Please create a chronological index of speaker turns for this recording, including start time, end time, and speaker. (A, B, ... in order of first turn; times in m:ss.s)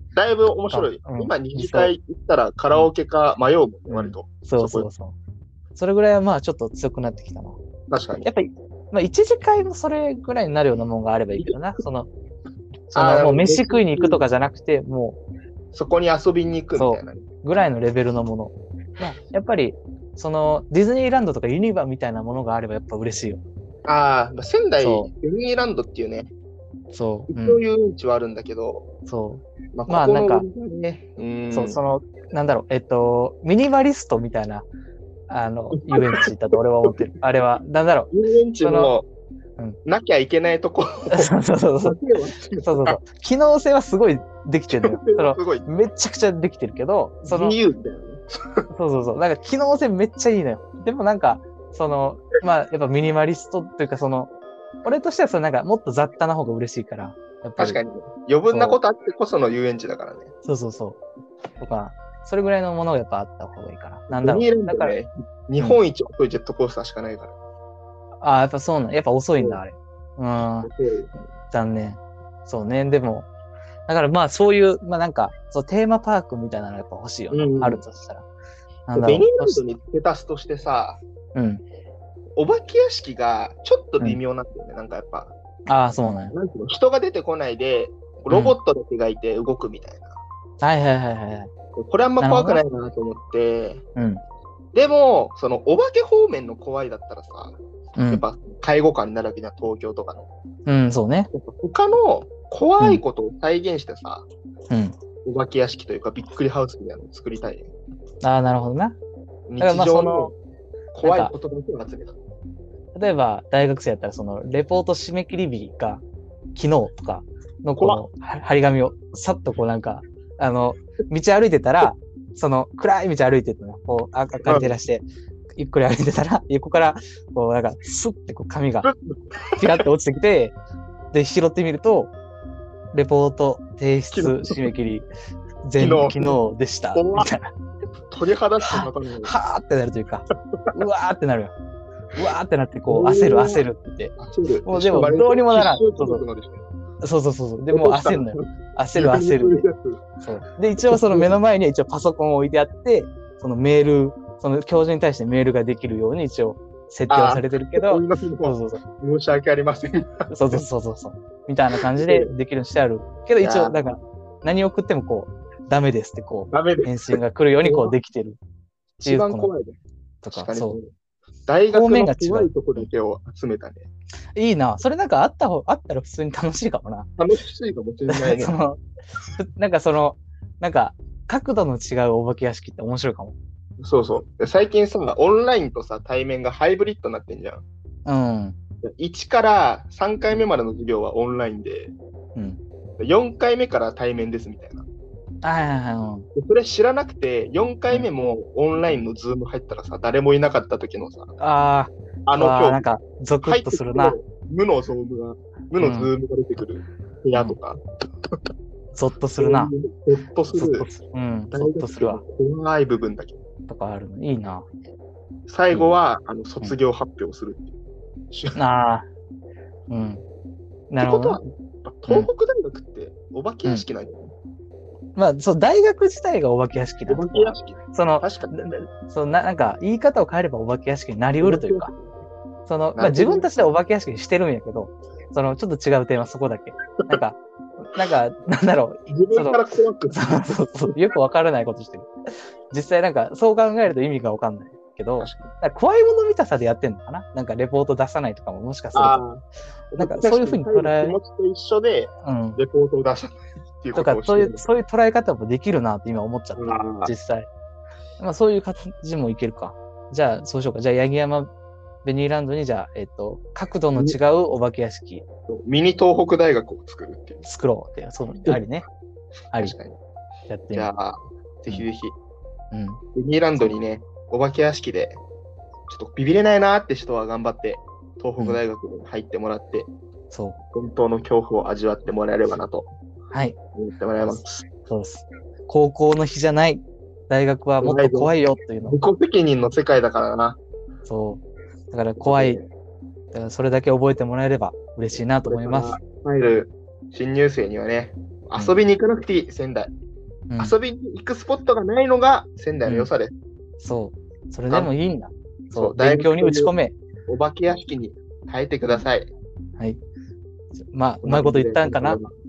0:00.1-0:04.9 A
0:00.7-0:01.9 B
0:03.9-0:05.2 B
0:05.8-0:07.6 B
0:07.9-0:08.3 A
0:08.2-0:12.1 B
0:12.9-0:15.2 B
0:12.9-0:14.2 A
0:15.7-0:17.2 A
0:16.8-0:23.4 B
0:23.8-0:26.3 A
0:24.8-0:25.1 B
0:26.9-0:27.6 B
0:27.3-0:28.9 A
0:29.1-0:30.4 B
0:29.7-0:31.8 A
0:31.5-0:34.7 B
0:35.3-0:38.1 B
0:35.8-0:36.3 A
0:38.1-0:39.1 A
0:38.6-0:38.9 B
0:39.8-0:43.0 A
0:41.1-0:42.0 B
0:42.6-0:47.6 B
0:44.7-0:45.7 A
0:47.2-0:48.6 A
0:48.7-0:54.3 B
0:54.8-0:57.8 B
0:57.6-1:00.3 A
0:58.5-0:58.8 B
1:00.4-1:01.0 B
1:01.6-1:04.9 B
1:04.1-1:07.4 A
1:08.2-1:10.7 B
1:10.4-1:11.1 A
1:11.5-1:13.3 B
1:13.9-1:18.2 B
1:17.3-1:17.8 A
1:18.9-1:19.6 B
1:18.9-1:21.0 A
1:21.3-1:21.6 B
1:22.4-1:25.3 A
1:25.7-1:26.3 B
1:26.0-1:30.1 A
1:28.3-1:28.6 B
1:30.6-1:31.5 B
1:31.8-1:33.8 A
1:32.2-1:32.6 B
1:34.0-1:34.2 B
1:34.7-1:37.6 A
1:38.0-1:38.2 B
1:38.1-1:40.3 A
1:40.6-1:41.3 B
1:41.3-1:44.2 A
1:45.2-1:47.7 A
1:48.2-1:49.0 B
1:49.5-1:50.3 A
1:49.6-1:50.3 B
1:50.9-1:52.2 A
1:51.0-1:51.3 B
1:52.9-1:56.0 B
1:56.6-2:05.0 B
1:57.8-1:58.0 A
2:04.5-2:04.8 A
2:05.6-2:08.9 B
2:08.8-2:09.8 A
2:09.6-2:10.6 B
2:11.1-2:12.1 B
2:12.9-2:15.1 B
2:14.1-2:14.7 A
2:15.6-2:17.5 B
2:15.8-2:16.4 A
2:16.9-2:17.3 A
2:18.1-2:19.3 A
2:18.6-2:21.5 B
2:22.2-2:26.2 B
2:22.9-2:23.6 A
2:24.2-2:26.6 A
2:27.0-2:29.7 B
2:27.7-2:28.4 A
2:28.9-2:30.0 A
2:30.2-2:38.8 B
2:30.8-2:31.3 A
2:37.1-2:40.7 A
2:40.3-2:48.4 B
2:41.8-2:42.3 A
2:43.4-2:43.8 A
2:46.5-2:47.9 A
2:49.0-2:49.8 A
2:49.0-2:49.5 B
2:50.2-2:50.8 B
2:50.3-2:50.9 A
2:51.5-2:53.9 A
2:51.7-2:52.9 B
2:54.4-2:57.1 B
2:57.2-2:58.6 A
2:58.1-2:58.8 B
2:59.4-3:03.3 B
3:03.8-3:07.6 A
3:08.1-3:08.6 B
3:08.8-3:11.9 A
3:13.0-3:14.8 A
3:15.4-3:16.3 B
3:16.3-3:21.3 A
3:21.4-3:24.2 B
3:22.3-3:22.8 A
3:23.4-3:27.8 A
3:25.8-3:26.1 B
3:28.9-3:29.7 B
3:29.4-3:30.9 A
3:30.5-3:32.2 B
3:31.5-3:33.4 A
3:33.7-3:34.7 B
3:35.5-3:37.8 A
3:38.3-3:38.6 A
3:38.6-3:39.0 B
3:39.9-3:40.2 B
3:40.9-3:41.4 B
3:41.0-3:44.3 A
3:45.2-3:51.9 B
3:47.1-3:48.5 A
3:51.4-3:52.1 A
3:52.7-4:02.1 B
3:53.0-3:53.5 A
3:59.1-4:01.0 A
4:02.7-4:09.2 B
4:05.2-4:05.5 A
4:08.9-4:14.6 A
4:10.0-4:11.2 B
4:12.2-4:12.6 B
4:13.9-4:17.5 B
4:16.6-4:17.1 A
4:18.2-4:21.5 B
4:22.0-4:25.2 B
4:25.5-4:27.4 A
4:27.4-4:28.8 B
4:29.6-4:30.0 A
4:30.5-4:30.9 B
4:30.7-4:32.2 A
4:32.7-4:33.0 B
4:33.2-4:35.2 A
4:35.9-4:39.9 A
4:40.3-4:40.6 B
4:40.7-4:42.9 A
4:43.3-4:43.6 B
4:43.8-4:44.7 A
4:44.2-4:49.0 B
4:47.8-4:50.6 A
4:51.1-4:52.6 B
4:52.2-4:52.7 A
4:53.3-4:56.0 B
4:55.5-4:59.9 A
5:00.6-5:03.3 A
5:03.8-5:06.9 B
5:05.7-5:06.7 A
5:07.3-5:09.3 A
5:10.9-5:12.2 B
5:11.2-5:12.3 A